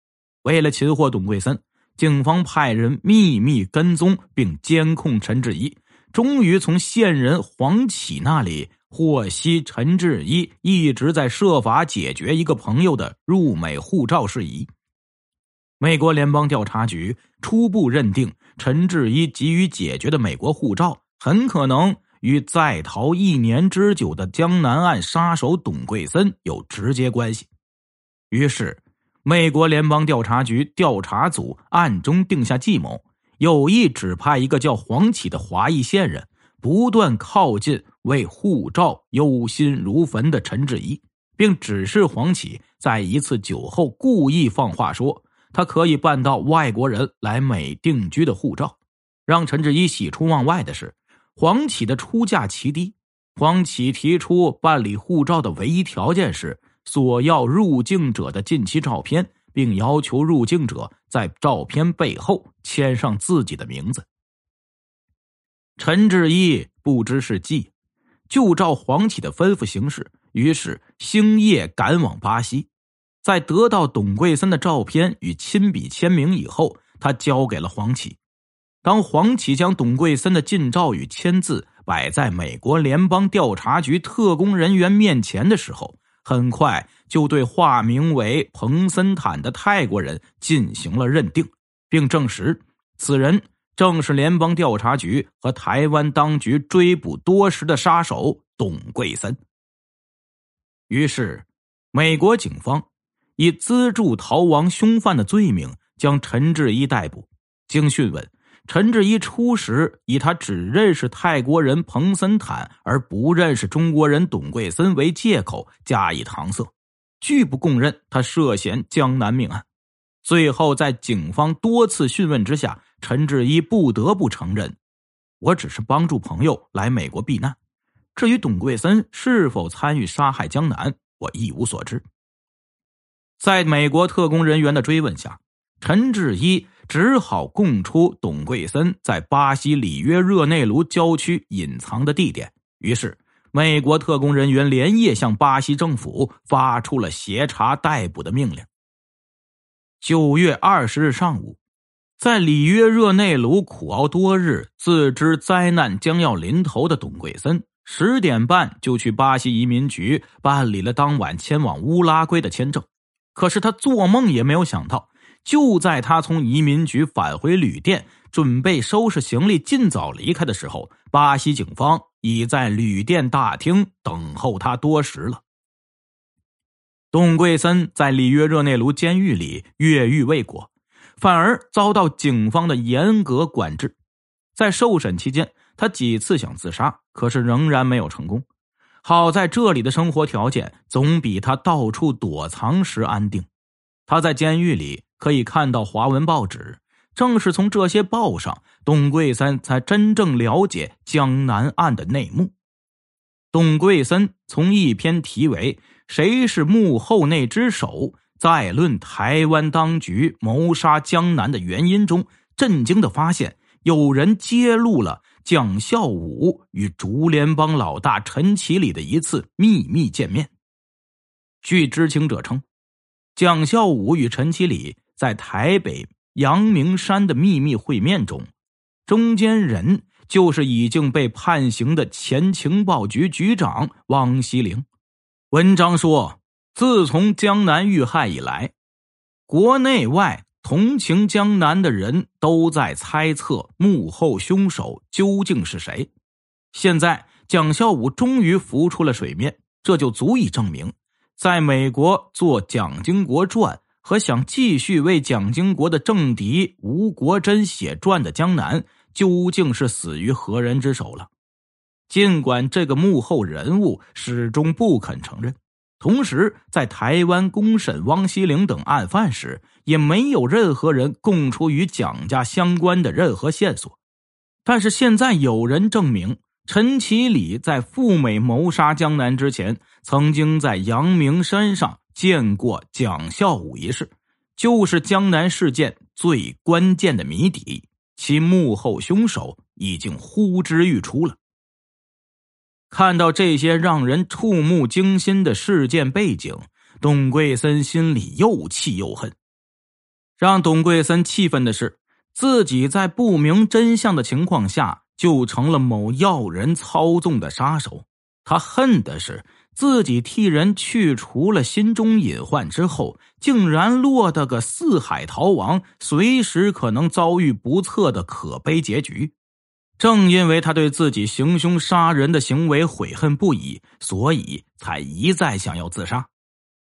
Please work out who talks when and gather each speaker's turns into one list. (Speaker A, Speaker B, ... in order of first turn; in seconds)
Speaker A: 0.4-14.7, 15.8-27.5, 28.3-64.1, 65.8-67.7, 68.3-72.7, 73.2-78.2, 78.8-99.4, 100.9-102.9, 103.4-119.7, 120.2-124.8, 125.4-127.6, 128.2-132.0, 133.4-148.7, 150.0-151.6, 152.2-175.4, 177.1-183.9, 184.6-188.4, 189.0-193.5, 194.1-202.5, 203.5-220.5, 221.6-222.6, 223.4-228.5, 229.1-234.8, 235.5-238.7, 239.5-246.1, 246.7-261.3, 262.1-274.0, 274.6-291.4, 292.9-299.4, 300.4-319.3, 320.0-326.3